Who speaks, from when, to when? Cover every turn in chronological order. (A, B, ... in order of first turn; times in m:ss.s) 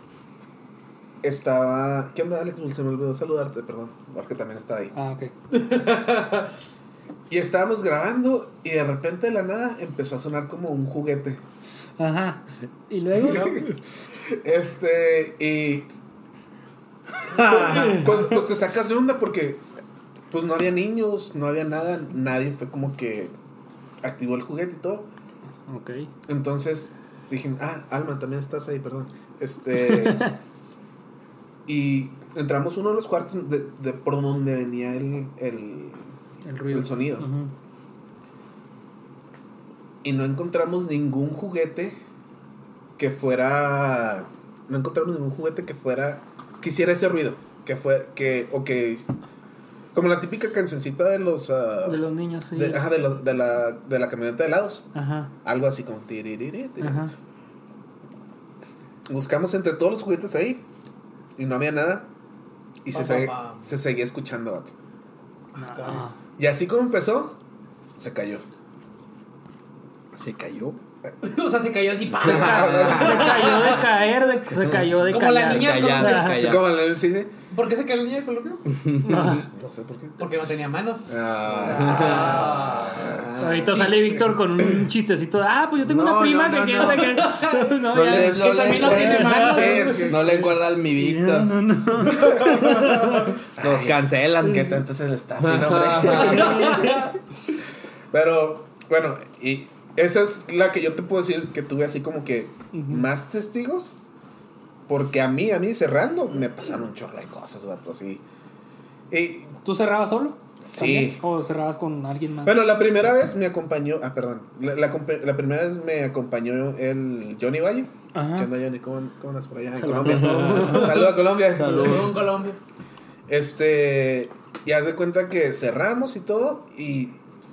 0:01.2-0:04.9 A
0:04.9-0:05.3 B
0:05.5-0:06.5 C
0:07.3-0:11.4 A
0:12.0-0:13.7 B
0:13.2-0:13.7 A
0:13.3-0:13.6 C
0:14.3-0:15.9 A
0:17.3-0:19.6 A
0:17.4-0:18.1 B
0:17.6-0:18.1 C
0:20.3-0:23.3 A
0:24.0-0:25.1 A
0:25.7-0:26.1 B
0:26.3-0:30.3 A
0:29.8-0:30.4 B
0:31.6-0:36.0 A
0:36.4-0:37.5 B
0:36.7-0:37.3 A
0:40.0-0:42.0 A
0:43.0-0:49.1 A
0:49.9-0:52.0 A
0:51.8-0:52.8 B
0:52.5-0:54.9 A
0:54.9-0:55.3 B
0:55.4-0:57.1 A
0:56.8-0:57.1 B
0:59.1-1:00.6 A
1:01.4-1:02.1 A
1:02.8-1:04.7 A
1:02.9-1:03.7 C
1:05.6-1:06.2 B
1:05.6-1:06.0 C
1:06.4-1:07.4 A
1:08.0-1:08.4 A
1:10.2-1:10.8 D
1:11.2-1:14.0 C
1:12.1-1:13.5 A
1:12.2-1:16.5 B
1:12.6-1:13.6 D
1:14.6-1:16.7 D
1:15.0-1:16.4 C
1:16.4-1:17.3 A
1:17.5-1:18.6 C
1:18.7-1:19.4 D
1:19.0-1:19.4 B
1:19.2-1:20.2 A
1:20.2-1:24.0 C
1:21.1-1:23.3 A
1:21.6-1:23.9 D
1:23.4-1:30.3 B
1:24.0-1:24.9 A
1:25.8-1:27.2 D
1:26.8-1:30.1 C
1:27.9-1:30.5 A
1:27.9-1:31.5 D
1:31.0-1:33.3 B
1:32.0-1:33.3 C
1:32.1-1:32.7 A
1:33.6-1:36.9 A
1:33.6-1:34.8 D
1:35.4-1:36.9 D
1:36.0-1:37.1 B
1:36.1-1:37.1 C
1:38.1-1:44.0 A
1:42.7-1:43.0 B
1:44.9-1:48.2 A
1:49.1-1:49.5 A
1:49.6-1:52.7 B
1:50.6-1:51.2 A
1:52.4-2:02.1 A
1:58.1-1:58.5 B
1:59.8-2:01.0 B
1:59.9-2:02.2 D
2:00.7-2:01.0 C
2:01.6-2:02.6 C
2:03.3-2:07.2 A